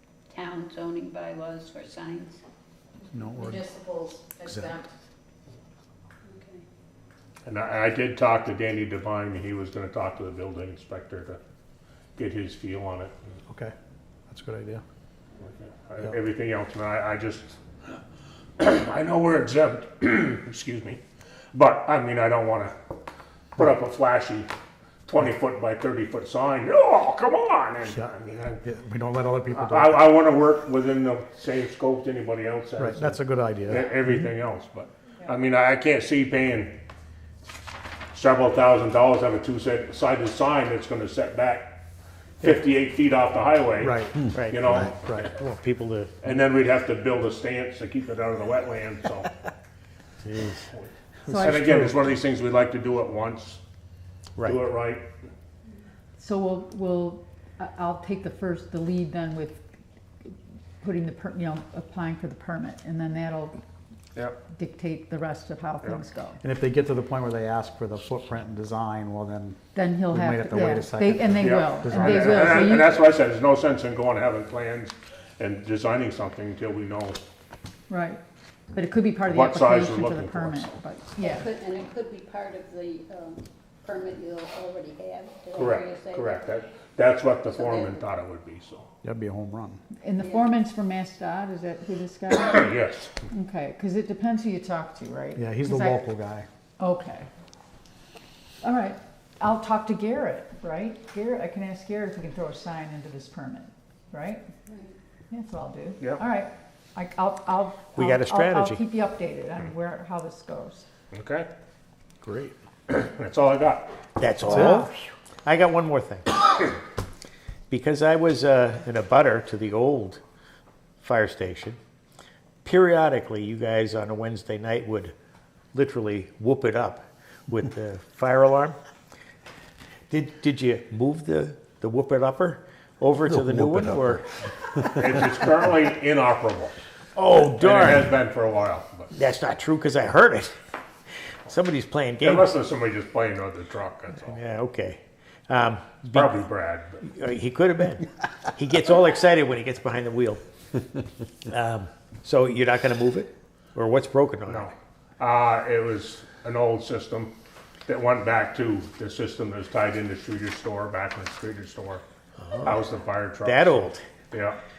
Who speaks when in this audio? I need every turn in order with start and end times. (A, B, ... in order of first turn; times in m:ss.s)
0:00.3-0:02.4 A
0:03.1-0:03.7 B
0:03.4-0:04.9 C
0:04.4-0:04.8 B
0:06.3-0:06.6 A
0:07.4-0:11.4 D
0:12.2-0:13.1 D
0:13.5-0:13.7 B
0:14.3-0:14.8 B
0:15.4-0:17.6 D
0:18.6-0:21.0 D
0:21.5-0:22.8 D
0:23.5-0:24.5 D
0:25.1-0:28.6 D
0:28.6-0:30.1 B
0:29.5-0:36.8 D
0:32.8-0:33.9 B
0:38.1-0:41.8 D
0:42.4-0:44.9 D
0:43.8-0:44.2 B
0:44.3-0:46.2 E
0:44.9-0:45.3 B
0:46.2-0:49.3 D
0:50.2-0:50.7 E
0:50.7-0:53.6 D
0:51.2-0:52.0 B
0:51.3-0:51.8 C
0:54.4-0:55.1 D
0:56.2-0:59.6 C
1:00.2-1:03.6 C
1:04.1-1:04.4 D
1:04.5-1:06.4 C
1:06.4-1:12.8 B
1:09.7-1:13.2 C
1:11.4-1:17.2 D
1:17.9-1:18.2 C
1:18.7-1:21.5 C
1:19.3-1:20.7 D
1:21.2-1:26.4 A
1:25.5-1:28.9 D
1:27.5-1:28.0 A
1:29.0-1:29.8 B
1:30.0-1:32.7 C
1:30.2-1:30.6 A
1:32.3-1:33.2 D
1:33.3-1:36.0 C
1:35.4-1:36.5 B
1:36.8-1:37.3 C
1:38.6-1:44.4 C
1:44.7-1:44.9 A
1:45.3-1:50.9 C
1:47.9-1:48.8 E
1:51.1-1:51.5 D
1:52.2-1:52.5 B
1:52.9-1:53.9 D
1:54.2-1:54.9 E
1:54.5-1:54.8 B
1:54.5-1:55.0 C
1:55.4-1:56.7 E
1:57.7-2:00.2 E
2:01.0-2:01.8 E
2:02.6-2:05.1 E
2:05.7-2:08.8 E
2:10.1-2:14.8 E
2:14.9-2:16.8 D
2:17.1-2:18.1 E
2:17.6-2:19.1 D
2:19.1-2:20.5 E
2:21.4-2:22.5 E
2:22.2-2:24.3 D
2:24.2-2:26.4 E
2:26.1-2:27.0 D
2:27.0-2:30.4 E
2:31.4-2:34.7 E
2:34.5-2:37.3 D
2:37.9-2:42.0 D
2:42.4-2:42.8 E
2:42.6-2:43.7 D
2:43.4-2:44.1 E
2:44.3-2:44.6 D